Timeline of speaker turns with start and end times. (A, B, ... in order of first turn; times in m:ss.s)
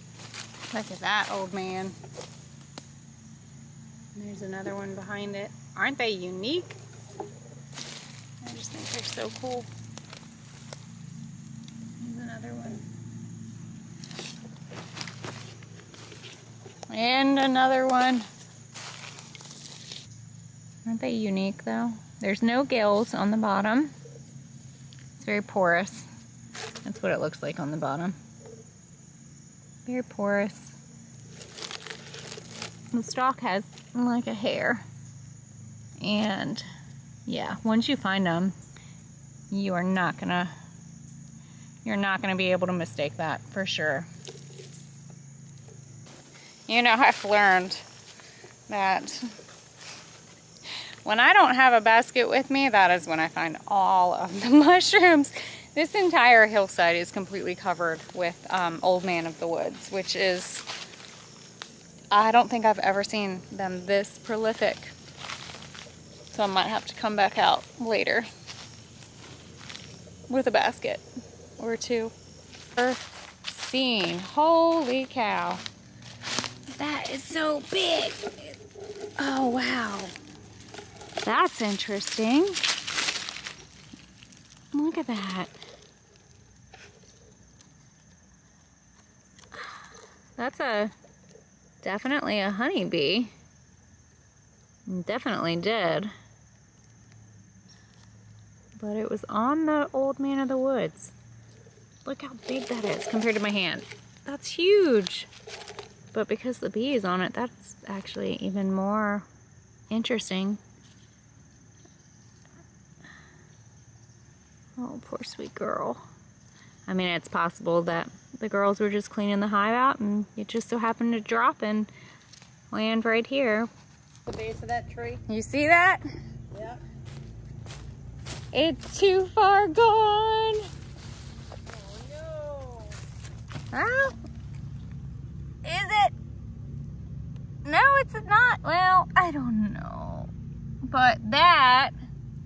0:00.7-0:02.0 A
0:04.2-0:06.8 A
0:08.4-0:09.7 A
0:12.0-0:12.8 A
0:16.9-0:18.2 A
0:20.8-0:23.9 A
0:25.2-0:26.1 A
0:26.8-0:28.2 A
0:29.9-0:30.8 A
0:32.9-0:34.8 A
0:36.0-0:36.6 A
0:37.2-0:38.6 A
0:39.5-0:40.5 A
0:41.8-0:44.1 A
0:46.7-0:47.8 A
0:48.7-0:49.3 A
0:51.0-1:00.7 A
1:02.1-1:05.0 A
1:06.3-1:08.3 A
1:10.3-1:11.0 A
1:11.6-1:12.1 A
1:12.8-1:15.6 A
1:16.7-1:18.6 A
1:19.2-1:20.2 A
1:21.2-1:22.6 A
1:24.7-1:25.5 A
1:30.4-1:30.9 A
1:31.8-1:33.3 A
1:34.9-1:36.1 A
1:38.8-1:41.1 A
1:42.0-1:45.3 A
1:46.1-1:49.3 A
1:49.9-1:50.6 A
1:54.8-1:56.0 A
1:56.9-2:01.9 A
2:02.7-2:03.7 A
2:04.2-2:05.2 B
2:05.3-2:06.0 A
2:06.5-2:06.8 B
2:08.5-2:10.7 A
2:11.7-2:13.0 B
2:13.7-2:14.2 A
2:15.6-2:16.1 A
2:17.6-2:20.3 A
2:20.9-2:22.0 A